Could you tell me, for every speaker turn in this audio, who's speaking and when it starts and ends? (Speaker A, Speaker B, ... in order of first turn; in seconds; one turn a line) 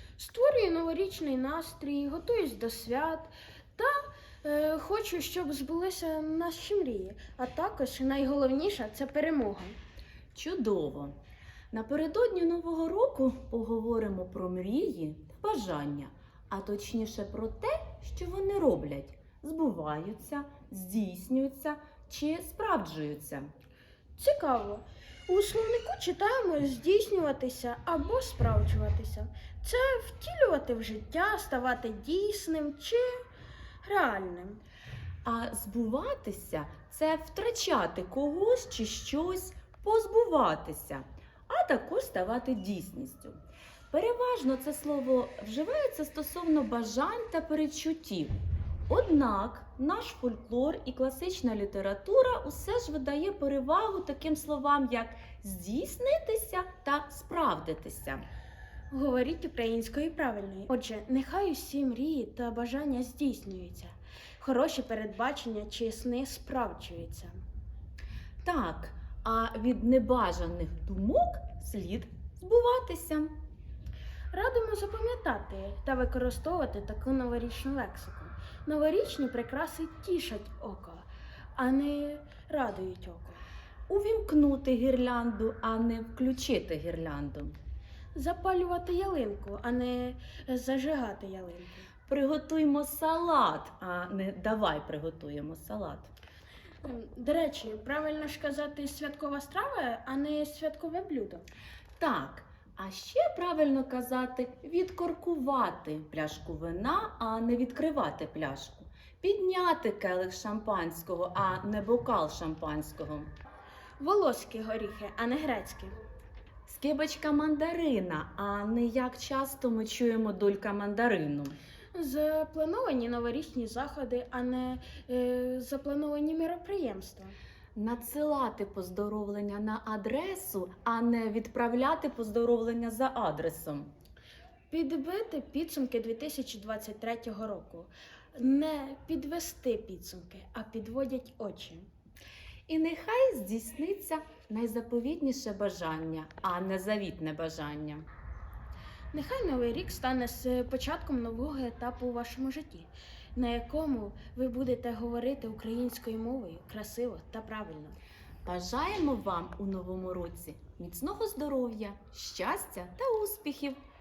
Speaker A: 0.2-9.8
Speaker B: 10.3-11.2
Speaker B: 11.7-23.5
Speaker A: 24.2-33.2
Speaker A: 33.8-34.6
Speaker B: 35.2-43.4
Speaker B: 43.9-48.3
Speaker B: 48.9-58.2
Speaker A: 58.9-67.4
Speaker B: 68.4-73.3
Speaker A: 74.3-83.5
Speaker B: 83.9-87.6
Speaker A: 88.1-91.9
Speaker B: 92.1-96.1
Speaker A: 96.8-101.5
Speaker B: 102.0-113.3
Speaker A: 114.0-116.0
Speaker B: 116.7-121.6
Speaker A: 121.9-127.3
Speaker B: 127.8-133.9
Speaker A: 134.7-141.9
Speaker B: 142.7-148.1
Speaker A: 149.1-158.0
Speaker B: 158.5-163.8